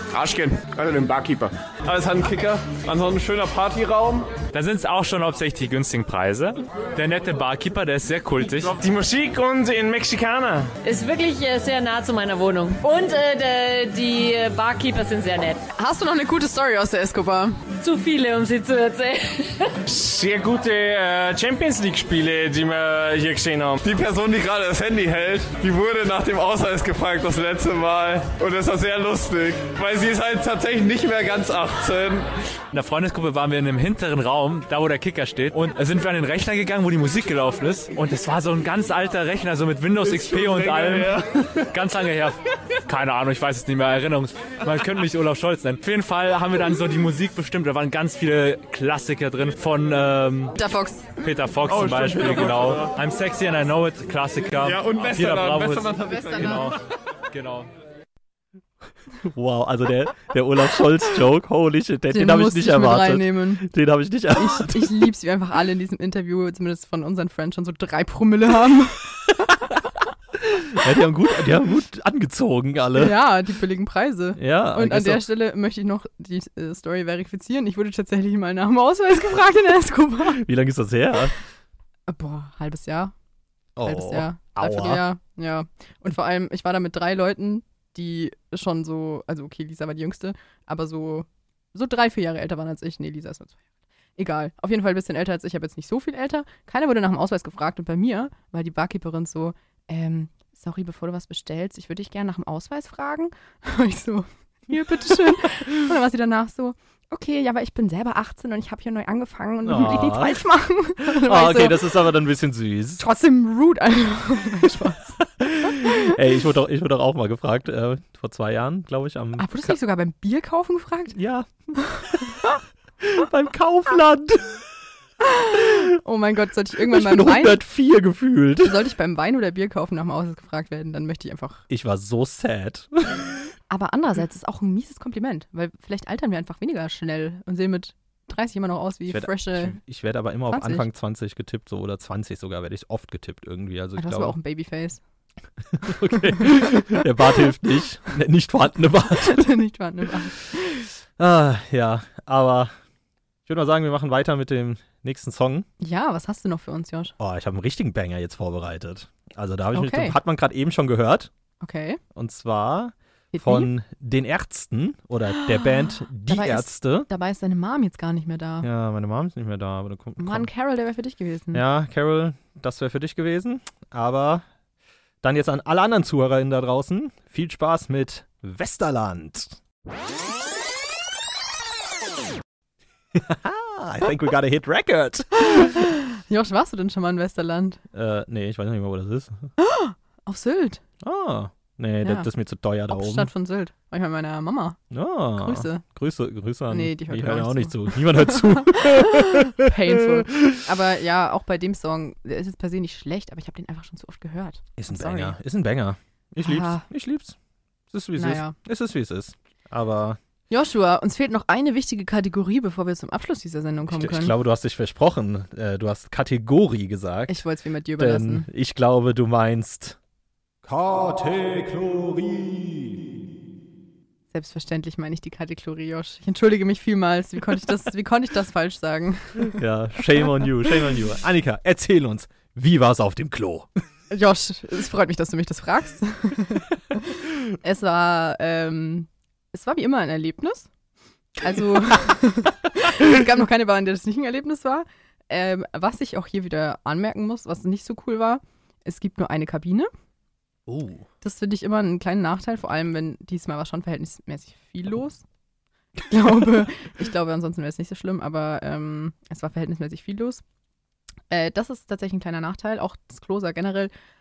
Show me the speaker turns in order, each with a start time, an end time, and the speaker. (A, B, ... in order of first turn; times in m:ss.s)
0:00.1-0:00.8 A
0:00.7-0:04.3 B
0:04.5-0:08.8 C
0:08.7-0:10.7 A
0:10.8-0:15.6 D
0:15.8-0:17.5 E
0:17.8-0:19.7 D
0:19.9-0:23.8 A
0:23.8-0:32.3 B
0:32.7-0:50.5 C
0:50.6-0:51.1 E
0:51.2-0:56.8 C
0:51.9-0:52.6 B
0:54.7-0:56.6 B
0:57.3-0:57.7 C
0:59.2-1:05.1 F
1:02.1-1:03.7 E
1:04.3-1:09.1 E
1:10.4-1:13.2 F
1:12.9-1:20.4 E
1:14.4-1:15.2 F
1:20.3-1:21.3 F
1:22.1-1:23.1 E
1:23.8-1:25.0 F
1:23.8-1:33.6 E
1:34.2-1:51.9 E
1:49.6-1:50.4 F
1:51.0-1:53.0 F
1:53.0-1:55.9 E
1:55.4-1:59.8 F
1:59.4-2:01.2 E
2:01.1-2:01.5 F
2:02.0-2:02.3 F
2:03.0-2:04.6 F
2:05.2-2:07.6 E
2:06.9-2:08.9 F
2:08.6-2:11.6 E
2:11.7-2:13.3 F
2:13.7-2:19.8 E
2:19.1-2:24.4 F
2:20.5-2:20.8 E
2:24.0-2:25.0 E
2:25.7-2:29.5 F
2:29.2-2:30.4 E
2:31.2-2:32.7 F
2:33.4-2:35.7 F
2:35.8-2:37.1 E
2:37.2-2:41.3 F
2:39.7-2:40.2 E
2:41.6-2:42.0 E
2:42.1-2:47.1 F
2:43.3-2:43.7 E
2:45.3-2:48.7 E
2:48.6-2:50.5 F
2:50.2-2:51.6 E
2:51.5-2:54.4 F
2:55.2-2:59.6 F
3:03.1-3:05.9 F
3:05.4-3:07.8 E
3:07.9-3:09.5 F
3:09.6-3:10.8 E
3:11.0-3:13.3 F
3:12.0-3:12.3 E
3:12.9-3:14.8 E
3:14.9-3:20.6 F
3:15.4-3:15.8 E
3:16.7-3:25.3 E
3:24.8-3:27.4 F
3:26.4-3:26.8 E
3:27.9-3:30.2 F
3:28.2-3:28.5 E
3:30.5-3:34.3 E
3:33.9-3:37.4 F
3:37.3-3:38.5 E
3:38.0-3:40.0 F
3:40.6-3:43.1 F
3:44.3-3:49.6 E
3:49.4-3:53.7 F
3:54.1-4:00.7 E
4:01.4-4:09.9 E
4:10.7-4:11.0 F
4:11.2-4:15.2 E
4:16.1-4:20.4 E
4:21.3-4:23.9 E